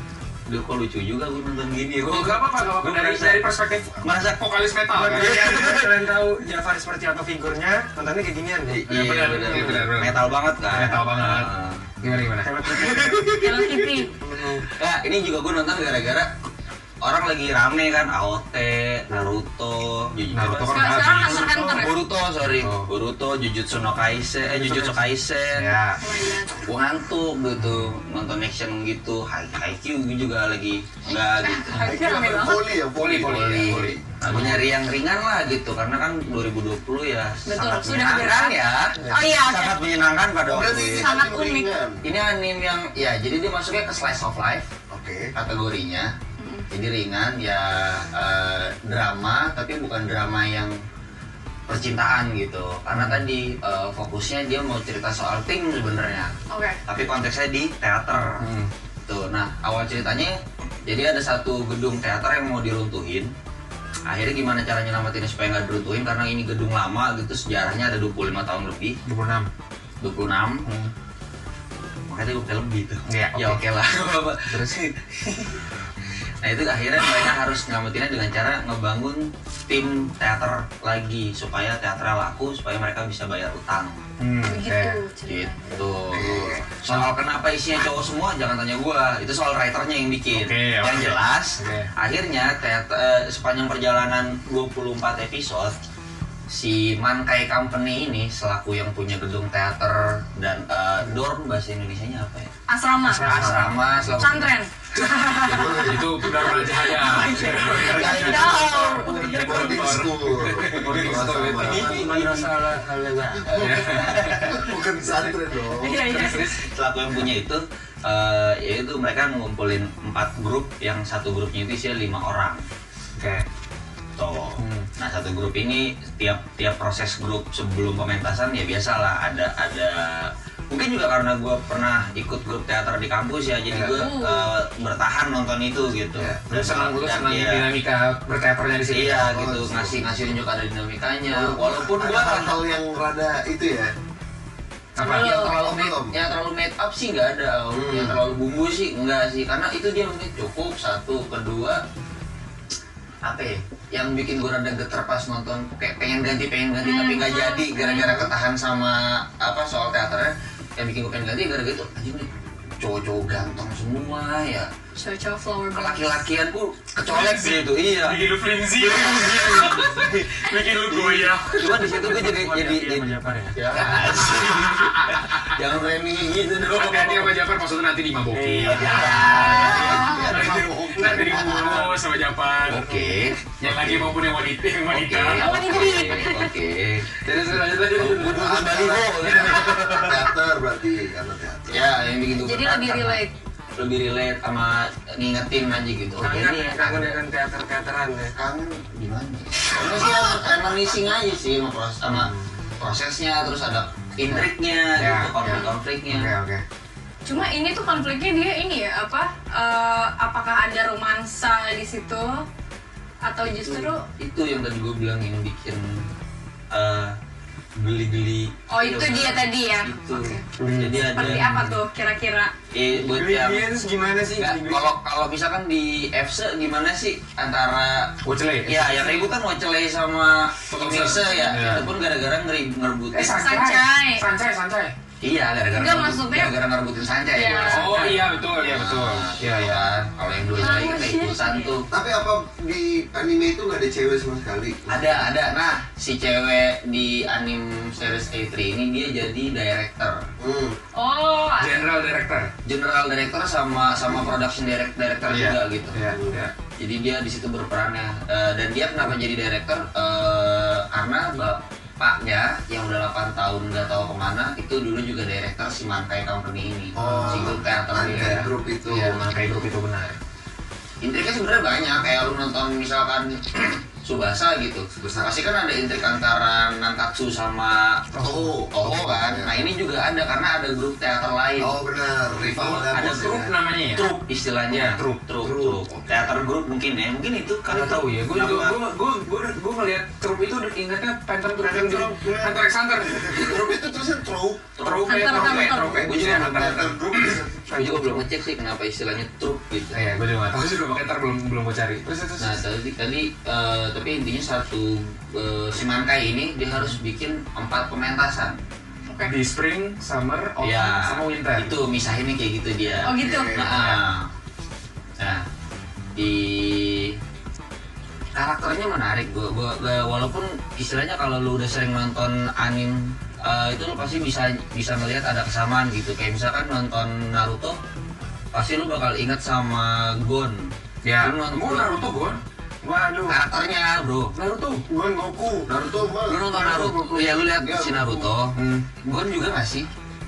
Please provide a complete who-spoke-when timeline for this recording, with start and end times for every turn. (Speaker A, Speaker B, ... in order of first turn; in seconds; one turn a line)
Speaker A: 0.5-3.5
Speaker B: 2.0-5.7
Speaker A: 4.0-4.4
Speaker C: 4.9-8.8
Speaker A: 5.2-6.0
Speaker A: 8.7-11.8
Speaker B: 8.9-12.7
Speaker C: 12.4-14.7
Speaker A: 13.0-13.3
Speaker D: 13.4-14.1
Speaker A: 14.6-16.3
Speaker A: 17.0-25.7
Speaker B: 20.3-21.6
Speaker D: 20.7-22.0
Speaker B: 22.4-22.9
Speaker B: 24.4-26.0
Speaker D: 26.0-26.6
Speaker A: 26.6-31.9
Speaker B: 27.6-27.9
Speaker D: 31.4-32.7
Speaker E: 31.8-34.5
Speaker B: 32.9-34.6
Speaker A: 33.2-41.1
Speaker D: 37.5-39.7
Speaker E: 40.5-42.0
Speaker D: 40.8-41.7
Speaker A: 42.0-44.7
Speaker E: 44.9-45.3
Speaker A: 45.3-46.1
Speaker D: 46.4-46.7
Speaker A: 46.7-50.7
Speaker A: 51.7-56.3
Speaker B: 52.9-53.2
Speaker D: 56.5-56.8
Speaker A: 56.9-58.4
Speaker B: 58.4-58.7
Speaker A: 59.0-63.3
Speaker A: 64.1-69.0
Speaker B: 69.0-69.5
Speaker A: 70.0-70.6
Speaker B: 70.7-70.9
Speaker A: 72.1-75.6
Speaker B: 73.1-73.6
Speaker B: 74.5-74.8
Speaker A: 76.4-84.0
Speaker B: 84.2-85.0
Speaker D: 84.4-85.8
Speaker A: 85.2-95.7
Speaker E: 86.1-86.6
Speaker B: 90.3-91.9
Speaker A: 96.5-102.5
Speaker D: 102.7-107.3
Speaker B: 103.1-104.5
Speaker A: 103.1-104.4
Speaker E: 105.4-106.0
Speaker B: 105.5-112.2
Speaker E: 107.2-112.2
Speaker C: 107.2-107.8
Speaker D: 107.8-110.0
Speaker C: 111.0-113.7
Speaker A: 111.6-112.3
Speaker B: 113.5-114.7
Speaker A: 113.6-114.2
Speaker E: 113.7-116.0
Speaker D: 115.7-116.6
Speaker B: 116.1-116.5
Speaker A: 116.5-122.6
Speaker B: 123.2-123.4
Speaker A: 124.2-137.7
Speaker B: 124.6-124.9
Speaker B: 133.7-134.0
Speaker D: 133.9-134.5
Speaker B: 136.2-139.3
Speaker A: 138.9-142.6
Speaker E: 139.3-139.9
Speaker E: 141.3-143.9
Speaker B: 145.0-145.4
Speaker D: 145.0-145.6
Speaker A: 145.0-151.8
Speaker E: 145.5-146.1
Speaker E: 147.7-148.2
Speaker A: 153.2-162.3
Speaker D: 156.8-158.1
Speaker A: 162.8-164.7
Speaker D: 164.9-166.0
Speaker A: 165.7-168.2
Speaker B: 167.0-171.9
Speaker A: 168.9-170.0
Speaker C: 168.9-169.6
Speaker C: 170.4-173.6
Speaker A: 170.9-177.3
Speaker B: 173.8-175.5
Speaker B: 176.7-182.9
Speaker C: 178.3-179.6
Speaker A: 178.6-180.2
Speaker E: 179.0-182.0
Speaker D: 179.2-180.2
Speaker C: 181.0-181.8
Speaker A: 182.7-184.2
Speaker B: 183.6-185.8
Speaker A: 184.9-190.3
Speaker D: 185.3-186.5
Speaker B: 187.2-188.7
Speaker E: 188.0-191.9
Speaker B: 189.2-189.7
Speaker A: 191.7-193.2
Speaker D: 192.3-193.3
Speaker A: 193.8-197.2
Speaker C: 196.2-198.3
Speaker A: 198.3-206.3
Speaker B: 202.1-202.4
Speaker B: 204.2-206.6
Speaker D: 207.2-212.4
Speaker D: 213.2-214.0
Speaker A: 213.4-216.0
Speaker A: 216.7-217.2
Speaker A: 217.8-221.5
Speaker D: 218.7-220.4
Speaker B: 220.6-221.8
Speaker D: 221.1-222.5
Speaker A: 222.7-223.7
Speaker C: 222.9-224.9
Speaker A: 224.3-233.4
Speaker B: 228.2-229.3
Speaker B: 230.7-231.9
Speaker D: 231.0-231.6
Speaker B: 233.1-234.9
Speaker D: 233.3-234.2
Speaker A: 235.2-241.9
Speaker D: 235.7-236.6
Speaker D: 237.3-238.2
Speaker B: 237.6-239.8
Speaker D: 240.6-241.7
Speaker E: 241.9-245.3
Speaker A: 244.9-250.2
Speaker E: 250.4-250.8
Speaker D: 250.9-251.9
Speaker B: 251.6-252.5
Speaker A: 252.6-256.0
Speaker B: 255.3-256.5
Speaker E: 256.1-256.4
Speaker A: 256.8-268.5
Speaker E: 266.9-269.2
Speaker B: 266.9-270.1
Speaker A: 271.0-278.1
Speaker E: 275.0-275.4
Speaker E: 278.2-279.7
Speaker A: 278.7-281.8
Speaker E: 281.6-283.4
Speaker A: 282.4-288.8
Speaker B: 282.5-284.1
Speaker B: 284.7-285.8
Speaker B: 287.7-293.6
Speaker C: 291.6-293.3
Speaker E: 293.3-297.7
Speaker B: 294.8-298.1
Speaker A: 294.9-296.9
Speaker D: 295.1-295.9
Speaker C: 297.8-298.1
Speaker A: 297.8-300.0
Speaker B: 299.9-302.6
Speaker A: 302.4-308.6
Speaker B: 309.3-311.7
Speaker A: 310.6-314.3
Speaker D: 313.0-313.6
Speaker E: 313.0-313.9
Speaker B: 313.7-314.0
Speaker A: 315.2-315.4
Speaker A: 316.1-317.2
Speaker A: 318.3-327.8
Speaker A: 328.5-332.1
Speaker B: 331.0-332.4
Speaker C: 332.8-333.4
Speaker A: 333.2-334.3
Speaker B: 334.3-334.8
Speaker C: 334.9-335.7
Speaker E: 335.7-338.3
Speaker A: 336.2-339.9
Speaker C: 336.5-337.2
Speaker B: 338.5-338.9